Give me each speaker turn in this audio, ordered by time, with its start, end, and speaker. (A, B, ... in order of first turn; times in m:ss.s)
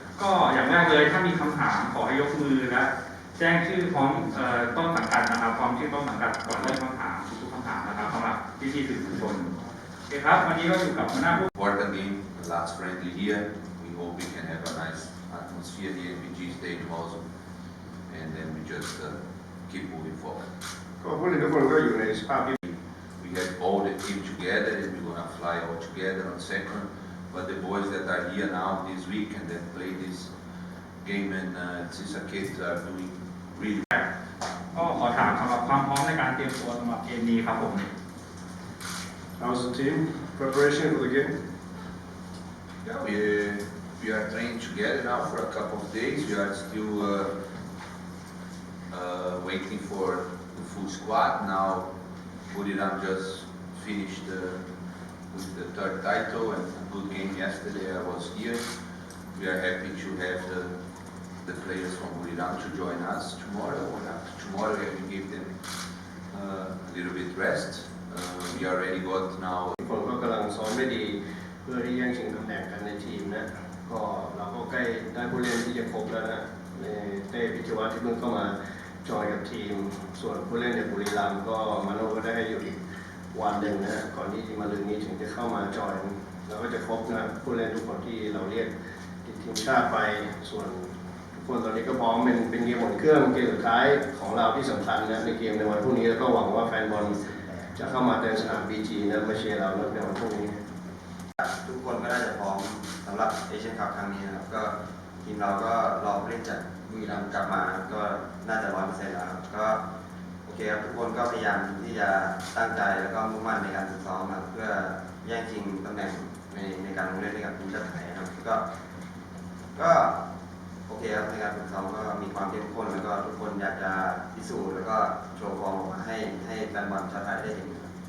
0:00.2-0:09.5 A
0:10.1-0:11.5 A
0:11.5-0:17.2 B
0:18.1-0:19.2 B
0:19.7-0:20.5 B
0:21.0-0:22.6 C
0:22.7-0:30.3 B
0:31.0-0:33.9 B
0:34.7-0:37.9 A
0:39.4-0:41.3 C
0:42.8-0:47.3 B
0:48.9-0:51.9 B
0:52.5-0:54.6 B
0:55.3-0:58.7 B
0:59.3-1:00.7 B
1:01.4-1:05.5 B
1:06.3-1:09.8 B
1:09.8-1:22.8 C
1:23.3-1:28.7 C
1:29.2-1:37.2 C
1:37.0-1:37.7 D
1:37.7-1:40.6 C
1:41.4-1:49.8 D
1:50.4-1:58.6 D
1:59.8-2:00.2 D
2:00.9-2:07.9 D